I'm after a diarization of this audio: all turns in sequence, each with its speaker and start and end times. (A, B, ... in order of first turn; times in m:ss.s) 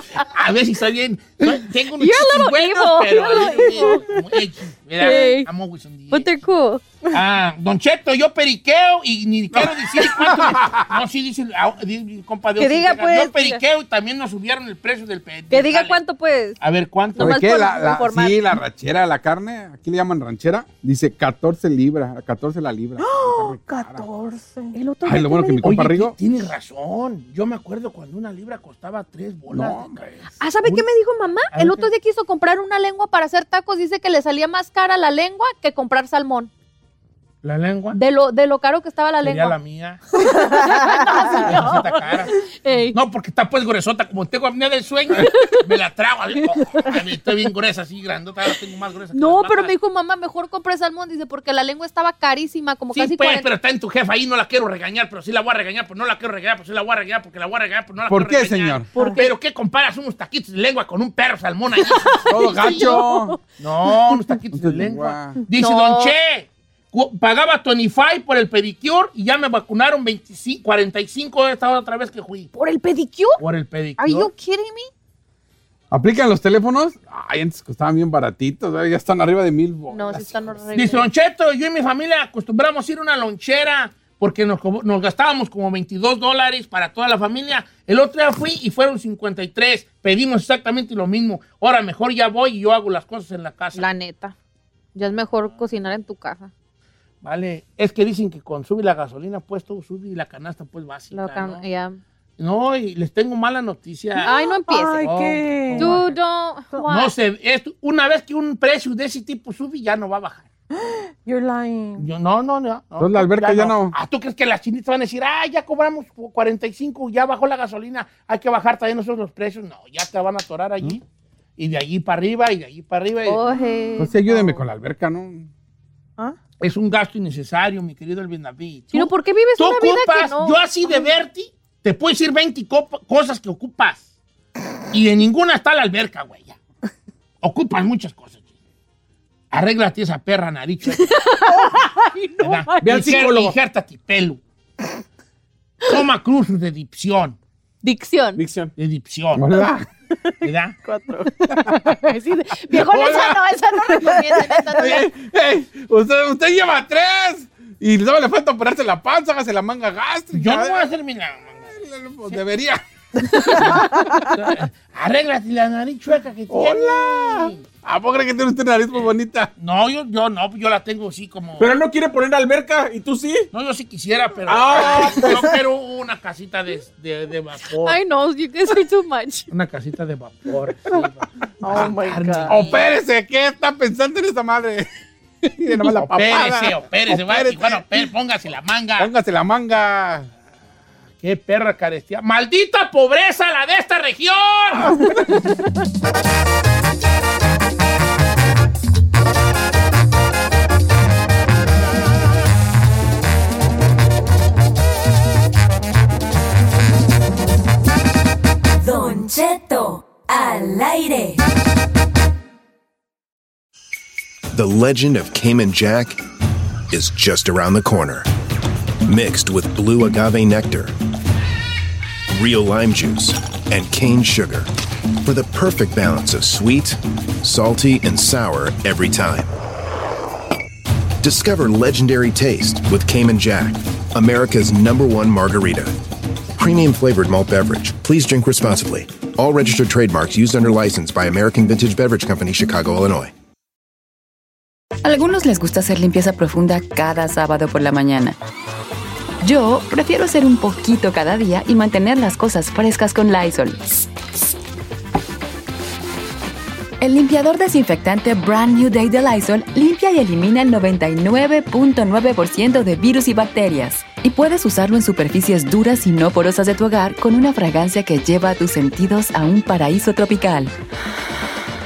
0:00.2-0:06.3 A
0:02.0-0:04.1 B
0:03.3-0:04.2 C
0:05.0-0:05.5 B
0:06.1-0:06.8 B
0:07.1-0:16.0 A
0:09.5-0:10.9 D
0:12.6-0:13.6 B
0:15.5-0:16.6 B
0:16.6-0:17.4 A
0:17.2-0:18.6 B
0:17.2-0:24.1 D
0:23.0-0:24.7 C
0:24.7-0:25.7 B
0:25.0-0:26.2 D
0:25.6-0:30.0 A
0:29.5-0:30.8 D
0:30.4-0:36.5 B
0:31.5-0:31.9 A
0:37.4-0:38.0 A
0:37.9-0:39.5 B
0:39.2-0:40.0 A
0:40.2-0:43.0 B
0:40.3-0:41.7 C
0:40.7-0:42.4 A
0:42.9-0:49.7 A
0:45.1-0:45.6 B
0:46.7-0:47.0 B
0:49.1-0:53.5 B
0:52.9-1:02.9 A
0:58.1-0:58.9 D
0:59.0-0:59.3 B
1:01.9-1:03.0 B
1:02.3-1:03.1 E
1:02.3-1:03.4 D
1:03.6-1:12.5 A
1:04.5-1:05.4 D
1:05.6-1:06.1 B
1:12.5-1:13.4 B
1:13.4-1:14.3 A
1:14.0-1:14.9 B
1:15.9-1:20.8 D
1:19.9-1:21.1 B
1:20.7-1:33.8 A
1:33.8-1:34.3 B
1:34.9-1:36.5 B
1:37.2-1:41.6 A
1:41.1-1:42.0 B
1:42.4-1:44.3 A
1:44.2-1:46.0 C
1:44.2-1:45.1 B
1:45.0-1:46.2 A
1:45.8-1:47.1 B
1:46.8-1:50.5 A
1:50.7-1:52.1 C
1:52.0-2:01.0 A
1:53.0-1:53.9 D
2:01.6-2:03.5 A
2:03.3-2:04.6 B
2:04.0-2:05.5 D
2:06.6-2:14.0 A
2:08.9-2:11.1 B
2:14.9-2:16.6 A
2:17.4-2:18.4 A
2:19.5-2:21.1 A
2:21.0-2:23.0 B
2:22.4-2:24.4 A
2:22.8-2:23.5 E
2:25.8-2:27.4 A
2:27.8-2:28.4 B
2:28.4-2:28.7 E
2:28.8-2:29.5 A
2:29.3-2:29.8 D
2:30.4-2:30.7 A
2:30.8-2:31.3 C
2:31.4-2:31.7 D
2:31.6-2:35.1 B
2:32.7-2:40.9 D
2:40.3-2:41.8 A
2:41.7-2:42.8 D
2:43.3-2:47.6 A
2:43.4-2:43.9 D
2:43.7-2:44.2 C
2:46.5-2:49.5 D
2:49.6-2:51.7 A
2:51.6-2:53.5 E
2:53.5-2:58.0 A
2:54.5-2:55.5 E
2:57.8-2:59.5 B
2:59.5-3:02.8 A
3:01.6-3:02.6 C
3:02.5-3:04.9 D
3:05.4-3:07.9 D
3:06.0-3:09.1 A
3:09.0-3:10.3 D
3:11.2-3:15.0 A
3:14.8-3:15.3 D
3:28.8-3:31.4 F
3:34.5-3:36.2 G
3:36.9-3:38.3 G
3:39.0-3:40.9 G
3:42.3-3:44.7 G
3:45.2-3:49.5 G
3:51.2-3:55.9 G
3:56.6-4:03.3 G
4:05.0-4:08.4 F
4:09.4-4:14.0 F
4:17.0-4:30.7 F